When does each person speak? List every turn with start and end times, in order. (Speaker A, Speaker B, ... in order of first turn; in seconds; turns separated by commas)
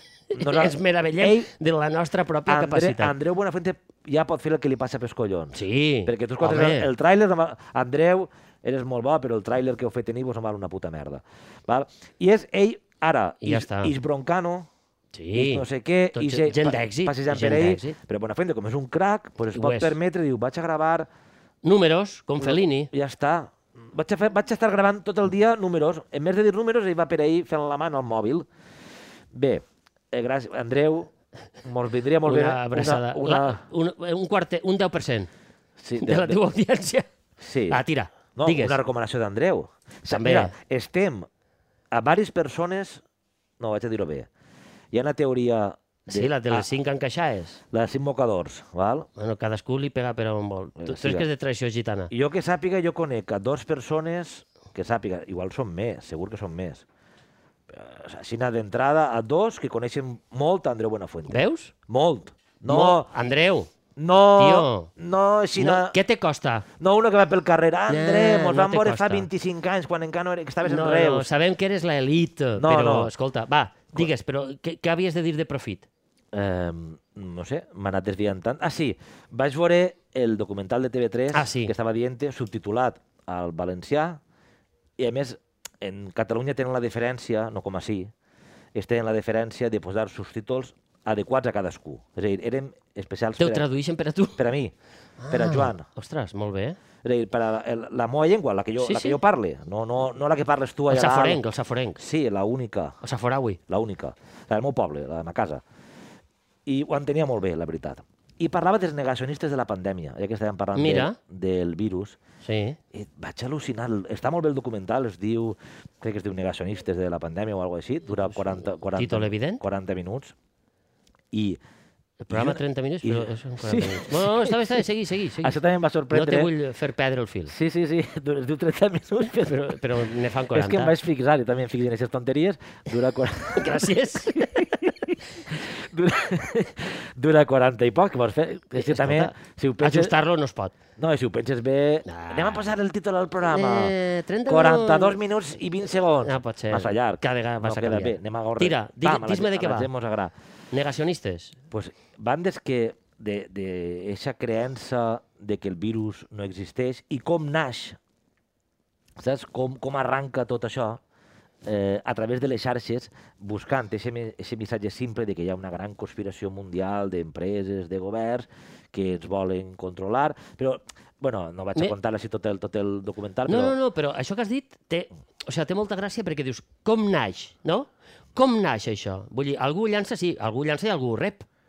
Speaker A: 0.3-3.1, Speaker B: 0.3-1.5, Speaker B: 2.5-14.7, Speaker A: 5.5-6.9, Speaker A: 13.4-13.9, Speaker A: 15.1-18.0, Speaker B: 15.3-21.1, Speaker A: 19.5-20.0, Speaker A: 21.6-22.9, Speaker B: 22.4-28.5, Speaker B: 29.3-31.1, Speaker B: 31.6-33.6, Speaker A: 32.2-35.3, Speaker B: 35.8-36.4, Speaker A: 36.0-37.1, Speaker B: 37.4-37.8, Speaker A: 37.7-38.8, Speaker B: 38.3-41.3, Speaker A: 40.1-40.5, Speaker B: 41.9-43.0, Speaker B: 43.6-44.3, Speaker B: 44.9-46.7, Speaker A: 46.1-47.6, Speaker B: 47.7-49.1, Speaker A: 49.1-52.1, Speaker B: 50.8-51.3, Speaker B: 52.1-56.8, Speaker B: 57.7-63.1, Speaker A: 61.3-61.7, Speaker A: 62.6-63.7, Speaker B: 64.0-66.0, Speaker A: 64.4-64.9, Speaker A: 65.6-66.7, Speaker B: 66.8-71.3, Speaker A: 67.9-69.3, Speaker A: 70.6-75.9, Speaker B: 72.6-73.1, Speaker B: 76.3-84.2, Speaker A: 81.3-81.7, Speaker B: 85.0-88.1, Speaker B: 88.7-93.6, Speaker A: 93.4-94.4, Speaker B: 94.4-94.7, Speaker A: 95.2-96.8, Speaker B: 95.3-95.9, Speaker B: 97.0-101.4, Speaker A: 98.8-99.2, Speaker A: 100.9-102.0, Speaker B: 102.0-103.0, Speaker A: 103.0-103.6, Speaker B: 103.7-105.6, Speaker B: 106.7-112.2, Speaker A: 110.7-111.2, Speaker A: 112.4-112.8, Speaker B: 112.9-120.3, Speaker A: 118.9-119.6, Speaker B: 121.3-121.6, Speaker A: 122.2-125.6, Speaker B: 122.3-124.8, Speaker B: 125.4-126.5, Speaker A: 126.1-127.5, Speaker B: 127.5-129.8, Speaker A: 129.4-130.9, Speaker B: 130.5-140.1, Speaker A: 133.5-134.7, Speaker A: 138.7-140.7, Speaker B: 141.0-143.9, Speaker A: 142.1-142.7, Speaker A: 143.4-145.2, Speaker B: 144.5-150.3, Speaker A: 146.2-149.9, Speaker A: 150.7-151.6, Speaker B: 151.7-158.0, Speaker B: 159.2-161.0, Speaker B: 161.6-173.8, Speaker A: 173.5-181.5